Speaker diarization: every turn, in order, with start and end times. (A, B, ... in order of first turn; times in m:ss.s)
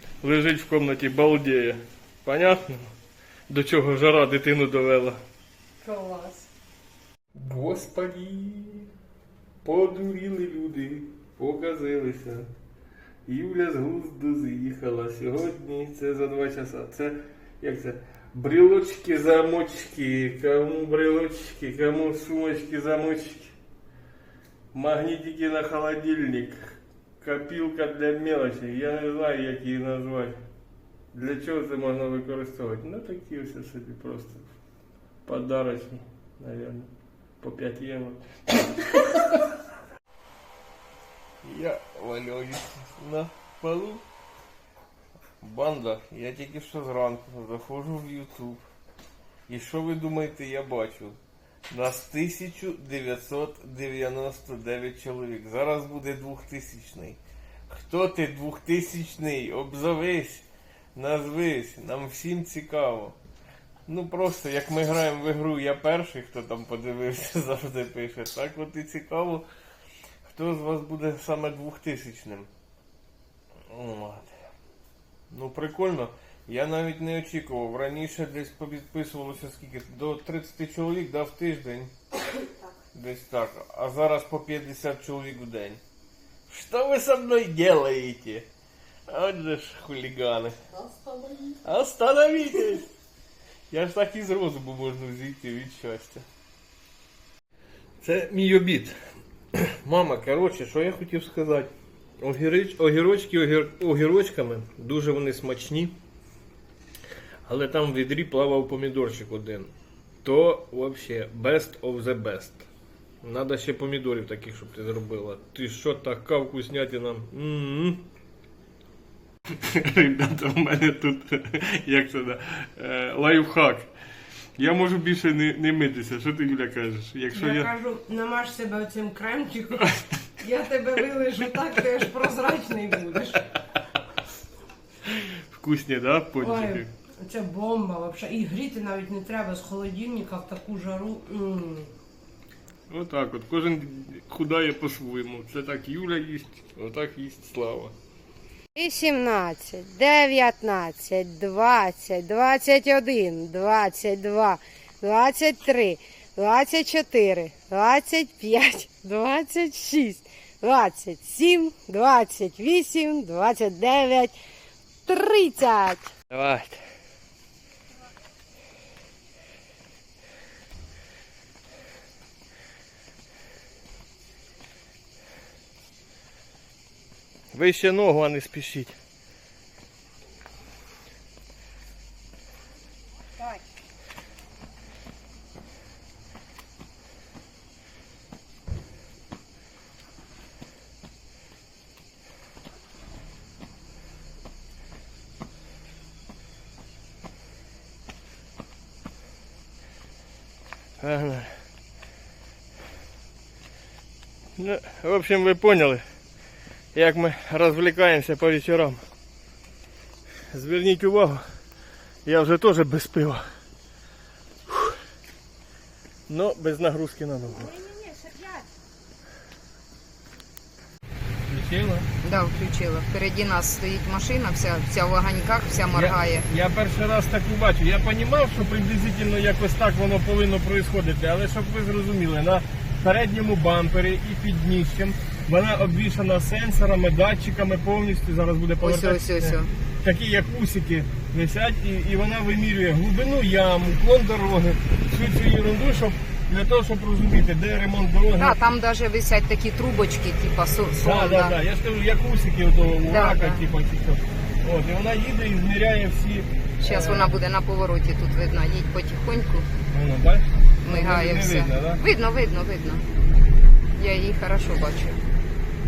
0:00.2-0:02.9 A
0:03.5-0:05.2 A
0:05.8-0:06.5 B
0:07.4-0:08.9 A
0:09.6-0:12.5 A
0:13.3-0:23.5 A
0:24.7-0:30.4 A
0:31.1-0:34.5 A
0:35.3-0:36.9 A
0:37.4-0:39.1 A
0:41.4-0:44.0 A
0:45.4-0:48.6 A
0:49.5-0:51.2 A
0:51.7-0:57.2 A
0:57.7-1:00.4 A
1:01.0-1:03.2 A
1:03.9-1:09.4 A
1:10.2-1:12.5 A
1:13.7-1:14.3 A
1:15.3-1:21.9 A
1:22.9-1:25.8 A
1:26.5-1:28.5 A
1:29.1-1:30.6 A
1:31.6-1:32.9 A
1:33.7-1:36.2 A
1:38.0-1:39.0 A
1:39.5-1:46.0 A
1:47.5-1:49.7 A
1:50.2-1:52.7 A
1:53.2-1:58.0 A
1:59.5-2:03.9 A
2:04.6-2:07.7 A
2:07.3-2:13.5 B
2:15.1-2:16.9 A
2:16.4-2:21.9 B
2:22.9-2:28.0 A
2:28.8-2:44.4 C
2:45.1-2:46.2 C
2:46.3-2:46.8 A
2:57.5-2:59.0 A
3:21.0-3:21.6 A
3:24.6-3:26.0 A
3:26.9-3:29.0 A
3:30.5-3:31.4 A
3:32.2-3:33.4 A
3:34.7-3:35.0 A
3:36.3-3:37.9 A
3:41.5-3:42.1 A
3:42.2-3:46.4 D
3:45.9-4:08.6 A
3:58.8-3:59.7 D
4:08.4-4:11.6 D
4:11.0-4:17.4 A
4:13.0-4:13.6 D
4:16.8-4:19.7 D
4:19.9-4:22.0 A
4:20.8-4:23.0 D
4:24.0-4:25.2 D